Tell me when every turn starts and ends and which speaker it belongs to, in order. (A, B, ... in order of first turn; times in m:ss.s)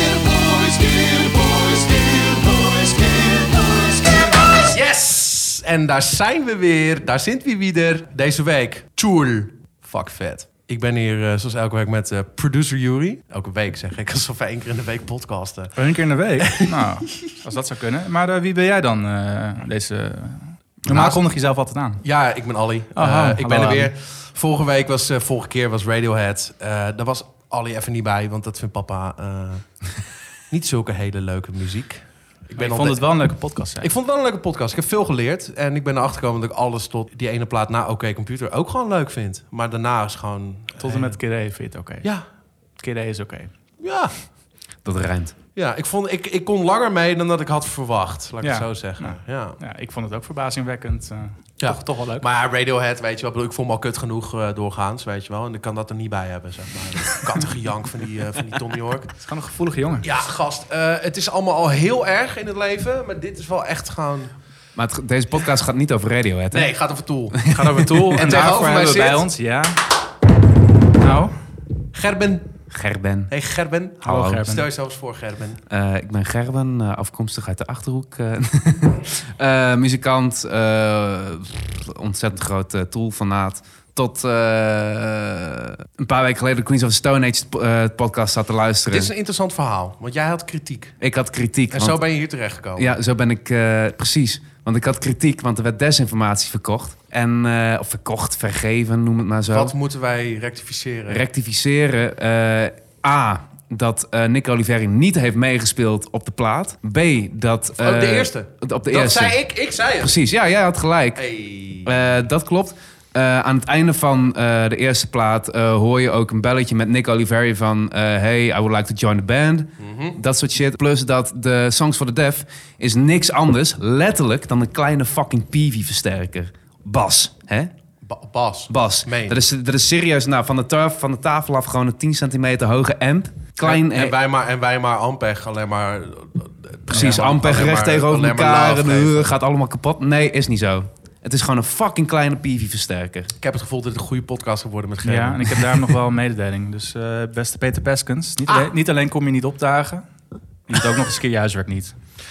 0:04.5-0:17.3 A
0:15.8-0:22.0 B
0:20.9-0:21.2 A
0:22.0-0:41.2 A
0:22.9-0:23.9 B
0:32.6-0:33.9 B
0:40.8-0:42.1 B
0:42.8-0:43.5 B
0:43.8-0:44.3 A
0:44.8-0:45.3 C
0:45.5-0:49.6 A
0:48.4-0:52.2 B
0:51.6-0:59.2 A
0:59.2-1:00.0 B
1:00.0-1:04.3 A
1:04.8-1:06.8 C
1:06.5-1:07.4 A
1:07.3-1:08.9 C
1:07.4-1:09.8 B
1:08.1-1:09.2 A
1:11.0-1:11.3 B
1:11.9-1:12.6 A
1:12.7-1:13.3 C
1:13.3-1:15.6 A
1:14.0-1:14.5 C
1:14.0-1:14.7 B
1:15.7-1:29.1 C
1:28.9-1:31.0 A
1:31.0-1:32.0 C
1:31.7-1:32.9 A
1:32.8-1:39.7 C
1:39.5-1:41.2 A
1:41.1-1:49.4 C
1:47.8-1:50.1 A
1:50.0-1:51.2 C
1:51.1-1:52.0 A
1:51.8-2:07.7 C
1:59.8-2:00.2 A
2:08.0-2:09.4 A
2:08.7-2:14.1 C
2:13.6-2:19.3 A
2:16.9-2:23.3 C
2:16.9-2:17.2 B
2:23.4-2:25.6 A
2:25.0-2:30.0 B
2:30.7-2:31.9 B